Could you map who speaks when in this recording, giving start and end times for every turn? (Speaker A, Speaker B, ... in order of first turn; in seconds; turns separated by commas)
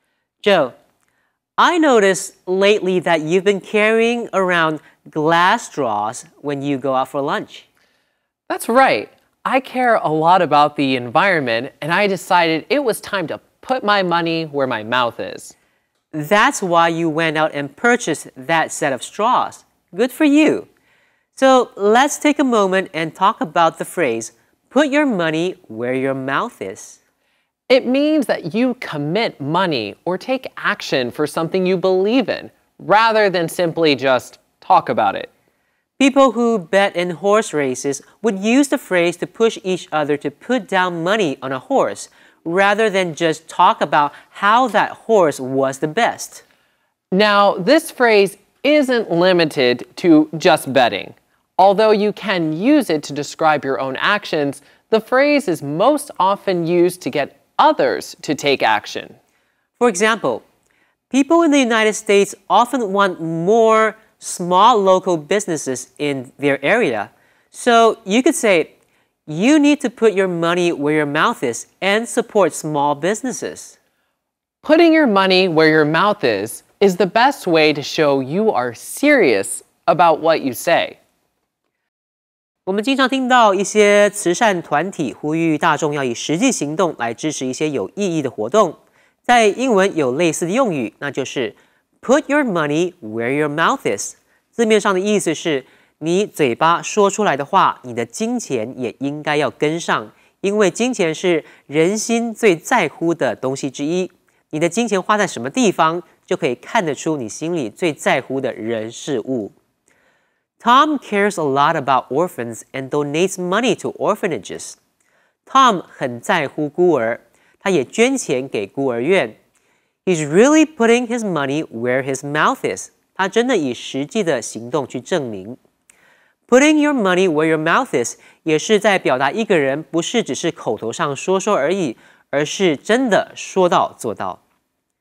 Speaker A: 0.4-0.7, Speaker A: 1.6-7.7, Speaker B: 8.5-15.5, Speaker A: 16.1-20.7, Speaker A: 21.3-27.0, Speaker B: 27.7-35.3, Speaker A: 36.0-46.4, Speaker B: 47.1-59.1, Speaker A: 59.8-60.4, Speaker A: 61.1-68.7, Speaker A: 69.3-73.8, Speaker B: 74.6-81.0, Speaker A: 82.7-109.5, Speaker A: 110.6-114.8, Speaker A: 115.5-119.3, Speaker A: 120.0-125.6, Speaker A: 126.5-134.4